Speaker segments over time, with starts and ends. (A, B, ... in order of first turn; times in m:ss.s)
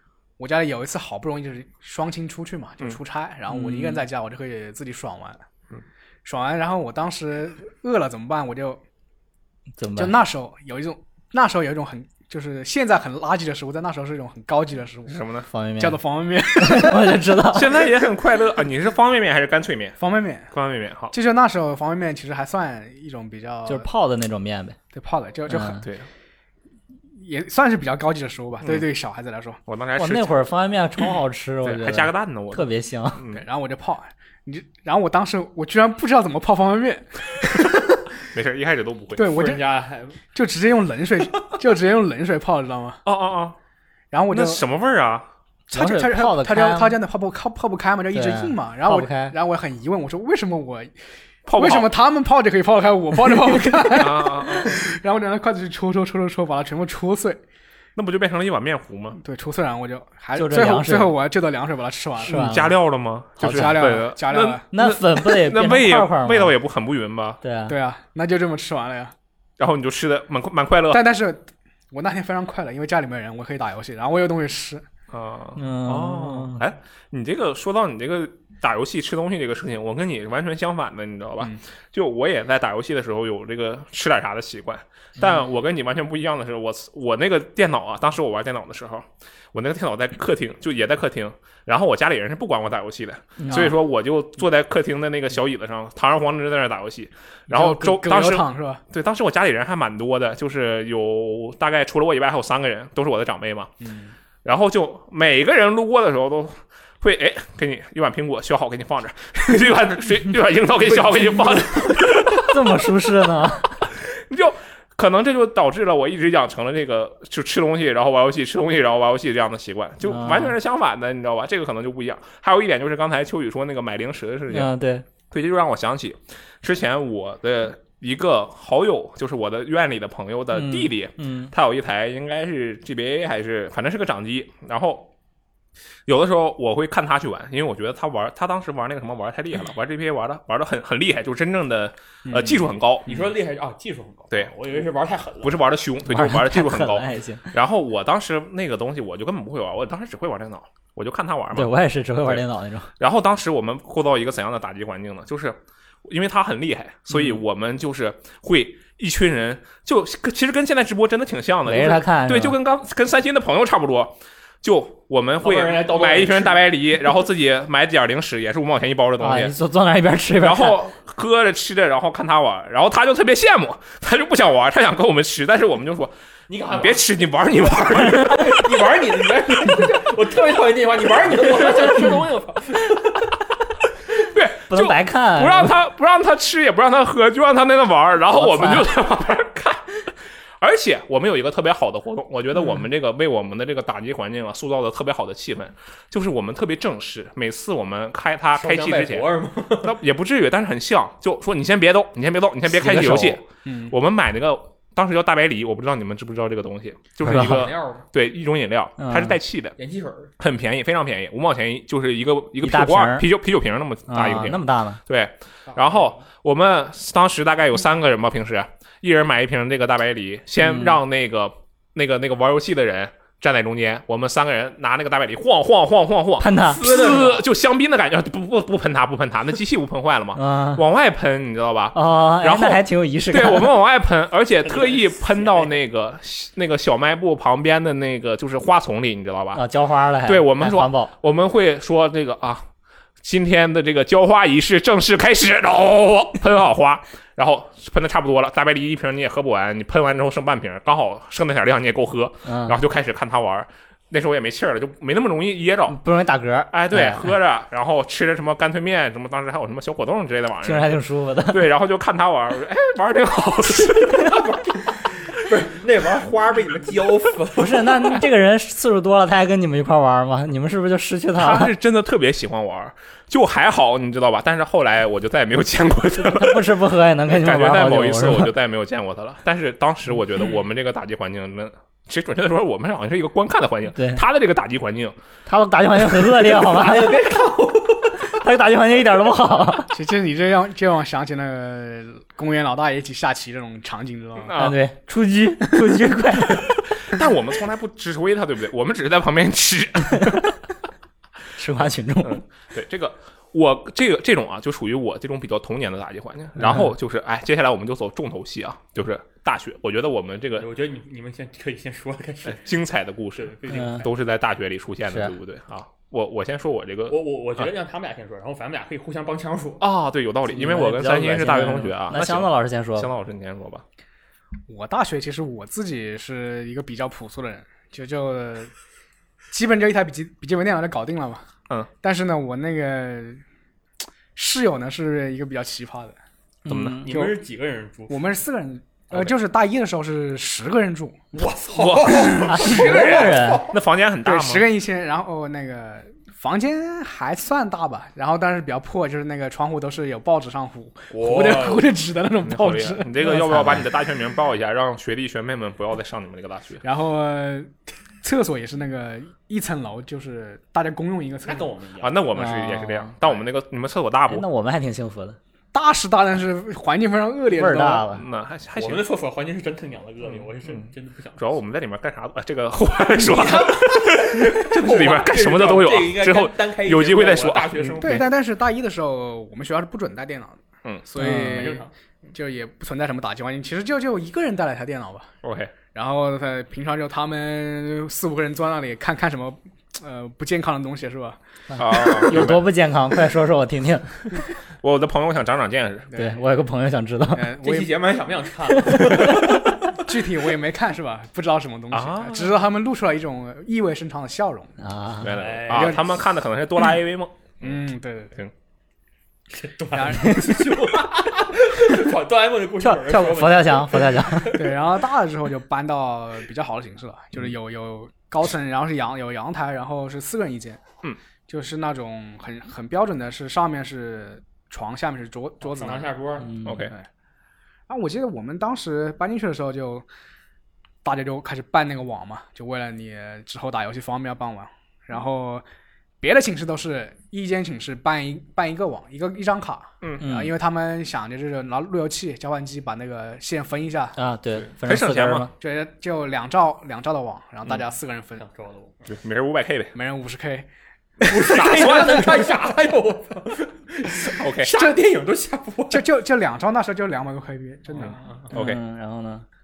0:00.4-0:05.4 A
0:03.5-0:04.0 B
0:06.2-0:08.8 A
0:09.8-0:10.2 B
0:09.9-0:15.2 A
0:15.1-0:15.5 C
0:15.5-0:16.0 B
0:15.8-0:17.2 A
0:16.6-0:17.7 B
0:17.5-0:20.0 C
0:20.0-0:20.5 A
0:20.5-0:21.1 C
0:21.1-0:23.9 A
0:23.6-0:24.8 B
0:24.9-0:25.8 A
0:25.5-0:25.8 B
0:25.8-0:26.1 C
0:27.1-0:29.6 A
0:29.7-0:30.4 C
0:30.0-0:33.2 B
0:31.6-0:33.4 C
0:33.3-0:38.0 A
0:38.3-0:39.4 C
0:39.1-0:39.6 A
0:39.3-0:40.2 D
0:40.3-0:43.0 A
0:43.0-0:43.6 C
0:44.1-0:44.6 A
0:44.3-0:45.3 C
0:45.7-0:50.9 A
0:45.7-0:47.0 B
0:48.1-0:49.4 B
0:51.4-0:51.9 C
0:51.5-0:57.4 A
0:53.9-0:54.8 C
0:58.0-0:59.2 C
0:59.2-1:02.5 A
1:00.4-1:01.1 B
1:02.2-1:02.7 B
1:02.2-1:07.4 C
1:03.4-1:04.0 B
1:03.4-1:04.7 A
1:04.7-1:06.5 B
1:07.4-1:07.7 B
1:07.7-1:09.1 A
1:09.6-1:11.1 C
1:10.9-1:14.8 A
1:15.1-1:43.7 C
1:15.6-1:16.6 B
1:33.4-1:33.7 B
1:37.5-1:38.8 A
1:43.8-1:44.1 A
1:44.4-1:52.6 C
1:52.4-1:53.8 B
1:54.1-2:04.7 C
2:00.0-2:00.6 B
2:04.5-2:05.1 B
2:05.3-2:15.1 C
2:10.5-2:11.5 B
2:16.1-2:23.1 C
2:22.3-2:23.2 A
2:23.1-2:25.6 D
2:25.4-2:31.7 C
2:26.1-2:27.5 B
2:31.5-2:32.9 B
2:33.0-2:49.6 C
2:37.1-2:37.4 B
2:41.6-2:42.6 B
2:45.4-2:46.6 D
2:49.2-2:50.8 B
2:50.4-2:56.1 C
2:56.5-2:57.0 D
2:56.7-2:58.8 C
2:57.9-3:03.2 D
3:04.1-3:10.0 C
3:04.7-3:05.7 B
3:08.3-3:08.9 B
3:10.6-3:29.8 C
3:18.5-3:20.0 D
3:22.7-3:23.4 B
3:23.6-3:23.9 A
3:27.2-3:27.7 B
3:27.3-3:28.0 D
3:29.0-3:29.4 B
3:29.8-3:30.3 D
3:30.4-3:59.6 C
3:32.6-3:33.3 B
3:34.1-3:35.0 B
3:35.7-3:36.2 D
3:40.6-3:41.0 B
3:46.4-3:46.8 B
3:46.6-3:47.4 D
3:50.3-3:50.8 B
3:51.9-3:53.8 B
3:54.6-3:55.7 D
3:59.5-4:01.1 B
4:00.2-4:02.6 C
4:03.2-4:16.0 C
4:12.4-4:12.8 B
4:15.9-4:17.3 B
4:16.7-4:24.4 C
4:20.6-4:21.7 B
4:24.1-4:28.1 D
4:27.6-4:31.7 B
4:31.4-4:45.2 C
4:36.2-4:38.5 B
4:44.0-4:44.2 B
4:45.4-4:47.2 B
4:46.4-4:48.3 D
4:48.2-4:49.9 B
4:49.9-4:54.5 A
4:54.4-4:54.8 C
4:54.6-4:56.7 B
4:56.6-5:00.6 C
5:01.6-5:02.4 B
5:02.2-5:10.7 C
5:06.6-5:06.9 B
5:10.6-5:12.6 D
5:12.4-5:17.2 C
5:13.3-5:14.1 D
5:13.7-5:14.0 B
5:15.1-5:15.3 B
5:17.1-5:19.8 D
5:19.8-5:23.8 C
5:20.5-5:23.1 B
5:24.7-5:28.7 A
5:29.5-5:31.4 A
5:32.0-5:33.4 A
5:34.3-5:36.2 A
5:36.6-5:37.1 B
5:36.7-5:37.0 C
5:37.0-5:38.2 D
5:37.1-5:37.4 A
5:38.1-5:41.2 A
5:41.3-5:43.8 D
5:41.8-5:44.7 C
5:42.3-5:43.6 B
5:44.2-5:53.1 A
5:51.1-5:51.9 D
5:52.4-5:56.8 C
5:53.2-5:53.9 B
5:56.8-6:01.7 A
6:01.4-6:02.2 D
6:02.0-6:04.5 C
6:02.3-6:03.1 B
6:04.3-6:05.4 B
6:05.7-6:08.1 A
6:07.5-6:08.2 B
6:08.1-6:09.0 C
6:08.7-6:11.4 D
6:10.3-6:10.9 C
6:11.4-6:18.2 C
6:13.2-6:18.3 D
6:18.0-6:25.3 A
6:21.2-6:21.7 B
6:21.2-6:21.9 D
6:25.4-6:25.7 C
6:25.8-6:31.4 A
6:31.7-6:34.2 B
6:31.8-6:32.6 C
6:34.8-6:36.1 C
6:36.1-6:36.4 A
6:36.2-6:37.6 B
6:37.3-6:38.0 A
6:37.6-6:39.6 D
6:38.8-6:39.3 B
6:39.9-6:44.8 A
6:41.9-6:42.6 C
6:44.8-6:45.3 B
6:45.2-6:47.7 C
6:45.3-6:46.0 D
6:45.7-6:46.1 A
6:47.6-6:48.4 A
6:49.5-6:54.7 D
6:49.9-6:50.6 A
6:52.8-6:54.6 B
6:54.5-7:00.8 A
7:01.5-7:06.1 A
7:05.6-7:06.6 D
7:06.5-7:06.8 B
7:06.6-7:06.9 C
7:07.9-7:10.0 A
7:11.0-7:15.6 A
7:16.2-7:24.2 A
7:20.2-7:20.5 B
7:24.2-7:25.5 B
7:24.7-7:25.5 C
7:25.6-7:28.4 A
7:28.4-7:29.1 D
7:29.1-7:29.9 C
7:29.9-7:30.7 A
7:31.2-7:32.0 A
7:31.2-7:36.1 D
7:31.5-7:32.4 C
7:34.3-7:34.7 C
7:34.7-7:35.0 A
7:35.9-7:38.2 A
7:38.0-7:38.5 D
7:38.0-7:38.8 C
7:38.5-7:39.4 B